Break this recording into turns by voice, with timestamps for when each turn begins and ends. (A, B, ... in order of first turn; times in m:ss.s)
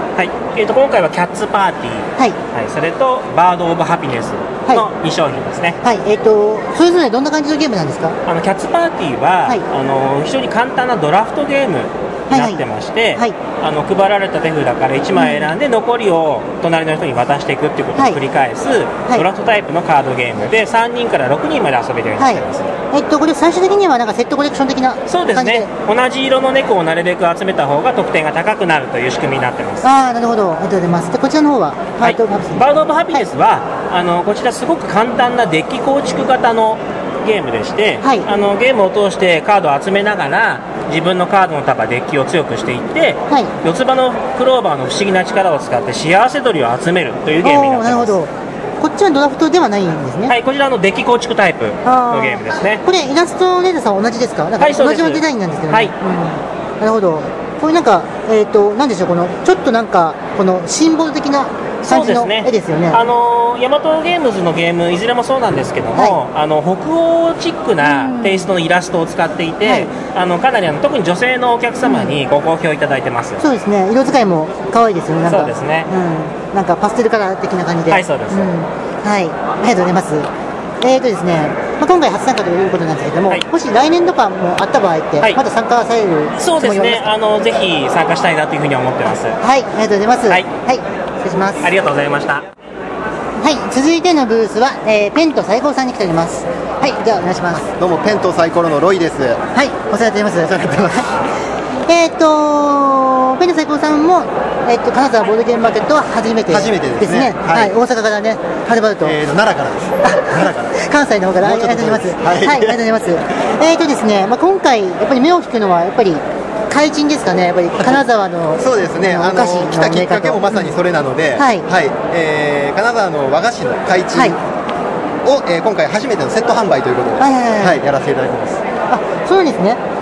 0:00.2-0:05.8 A
0:05.8-0:08.2 B
0:08.2-0:22.8 A
0:12.3-0:12.6 B
0:15.2-0:15.5 B
0:22.2-0:25.7 B
0:25.1-0:29.8 A
0:29.8-0:33.2 B
0:32.0-0:48.1 A
0:38.0-0:38.3 B
0:47.4-0:50.3 B
0:50.3-0:52.8 A
0:51.8-1:03.0 B
0:54.6-0:55.9 A
1:01.8-1:13.4 A
1:07.8-1:08.5 B
1:09.6-1:09.9 B
1:11.8-1:12.1 B
1:13.4-1:20.3 B
1:15.3-1:15.9 A
1:17.9-1:18.5 A
1:20.8-1:27.1 B
1:26.4-1:29.4 A
1:29.4-1:31.6 B
1:31.6-1:32.4 A
1:33.4-1:37.7 B
1:37.7-1:39.4 C
1:39.6-1:41.0 B
1:40.5-1:41.1 C
1:41.9-1:49.2 B
1:46.5-1:47.7 C
1:49.0-1:50.7 C
1:50.0-2:00.7 B
1:51.4-1:52.8 C
1:58.6-2:04.4 C
2:01.4-2:01.6 B
2:05.2-2:08.6 C
2:07.2-2:07.9 B
2:08.9-2:09.8 B